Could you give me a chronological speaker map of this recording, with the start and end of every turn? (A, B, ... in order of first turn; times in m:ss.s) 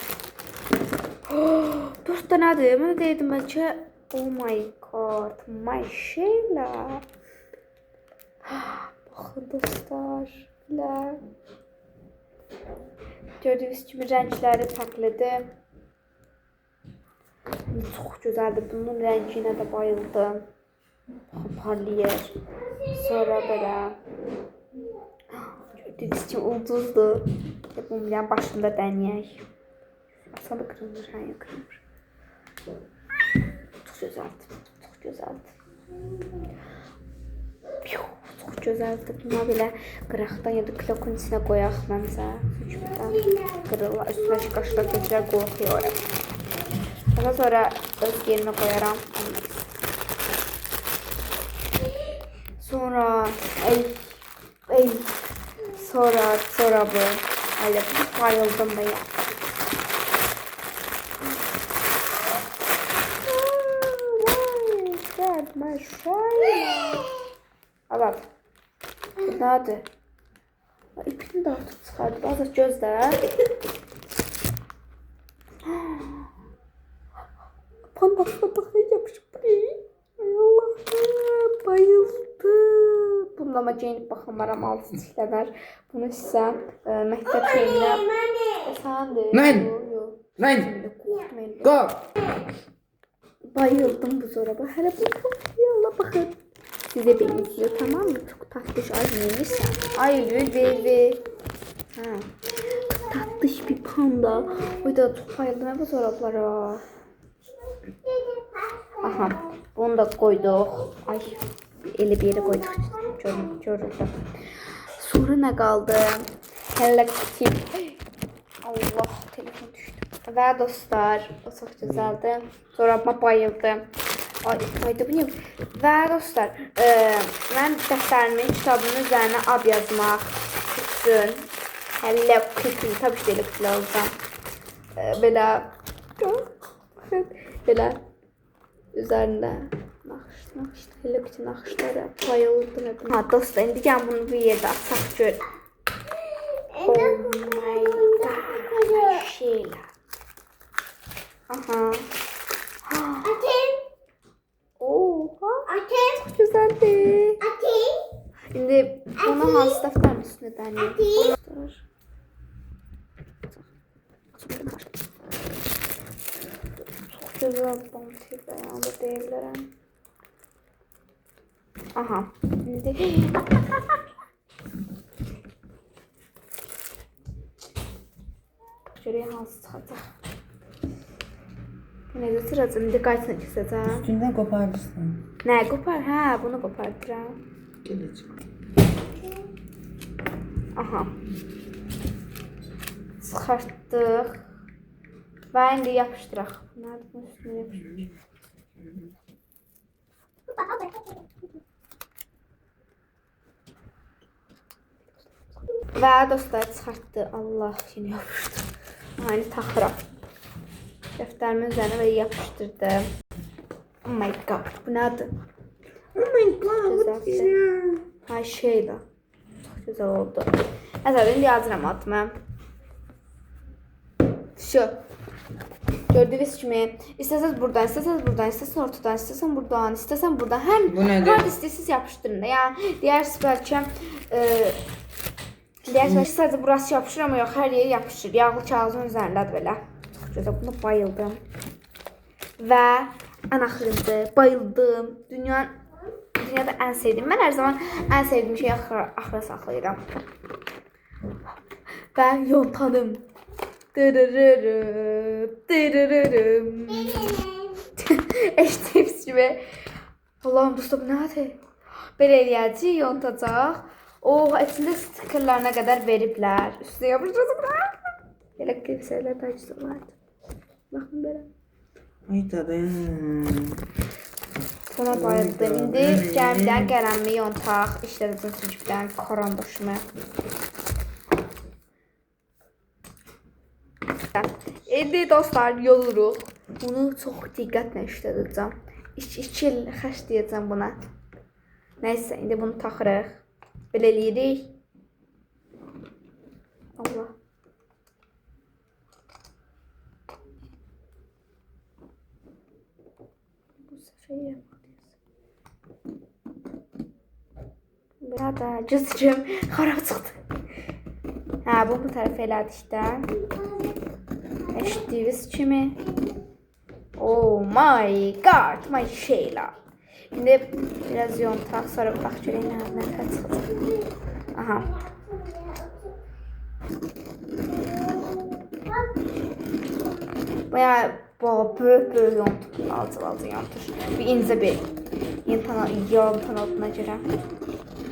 0:01.3-0:07.0 A
0:08.4-0:11.2 A
0:13.4-0:15.6 A
0:17.7-0:20.5 A
0:21.3-0:22.4 A
0:22.9-0:24.0 A
0:25.3-0:29.5 A
0:30.3-0:31.8 A
0:33.8-0:35.5 A
0:37.8-0:46.0 A
0:47.1-0:49.7 A
0:52.6-0:55.2 A
0:55.7-0:59.1 A
1:03.2-1:07.1 A
1:07.9-1:08.3 A
1:09.2-1:09.9 A
1:11.0-1:13.3 A
1:15.7-1:16.3 A
1:18.0-1:28.1 A
1:28.6-1:31.9 A
1:29.3-1:29.7 B
1:30.4-1:30.7 B
1:31.7-1:32.0 B
1:33.5-1:36.4 A
1:36.9-1:41.2 A
1:42.0-1:42.3 A
1:42.9-1:46.9 A
1:49.0-1:54.2 A
1:55.0-1:58.0 A
1:58.6-2:03.9 A
2:04.4-2:11.5 A
2:12.0-2:14.2 A
2:15.0-2:18.0 A
2:18.9-2:25.4 A
2:26.8-2:29.9 A
2:31.5-2:32.1 A
2:32.8-2:33.4 A
2:34.8-2:37.5 A
2:38.5-2:41.8 A
2:44.4-2:44.9 A
2:47.0-2:49.7 A
2:52.0-2:53.6 A
2:58.9-3:00.1 A
3:02.1-3:04.1 A
3:03.9-3:05.2 B
3:05.4-3:07.4 A
3:07.8-3:08.3 B
3:10.8-3:11.1 A
3:13.2-3:14.5 A
3:15.5-3:18.0 A
3:25.9-3:30.0 A
3:31.2-3:33.1 A
3:34.0-3:35.3 A
3:36.2-3:38.1 B
3:36.8-3:37.6 A
3:38.2-3:39.0 A
3:39.6-3:42.4 A
3:44.6-3:45.0 A
3:46.1-3:54.8 A
3:50.9-3:51.5 B
3:55.8-4:01.4 A
4:02.6-4:05.7 A
4:06.4-4:10.0 A
4:12.1-4:13.3 A
4:13.9-4:19.6 A
4:20.4-4:21.6 A
4:22.2-4:30.2 A
4:30.9-4:31.5 A
4:32.3-4:33.8 B
4:34.9-4:40.0 A
4:35.1-4:36.9 B
4:44.4-4:51.0 A
4:52.0-4:54.8 A
4:57.0-4:57.3 A
5:03.9-5:05.1 A
5:08.2-5:10.4 A
5:11.6-5:13.3 A
5:14.7-5:16.0 A
5:17.2-5:19.8 A
5:20.3-5:23.9 A
5:24.5-5:25.0 A
5:30.7-5:34.9 A
5:35.4-5:37.3 A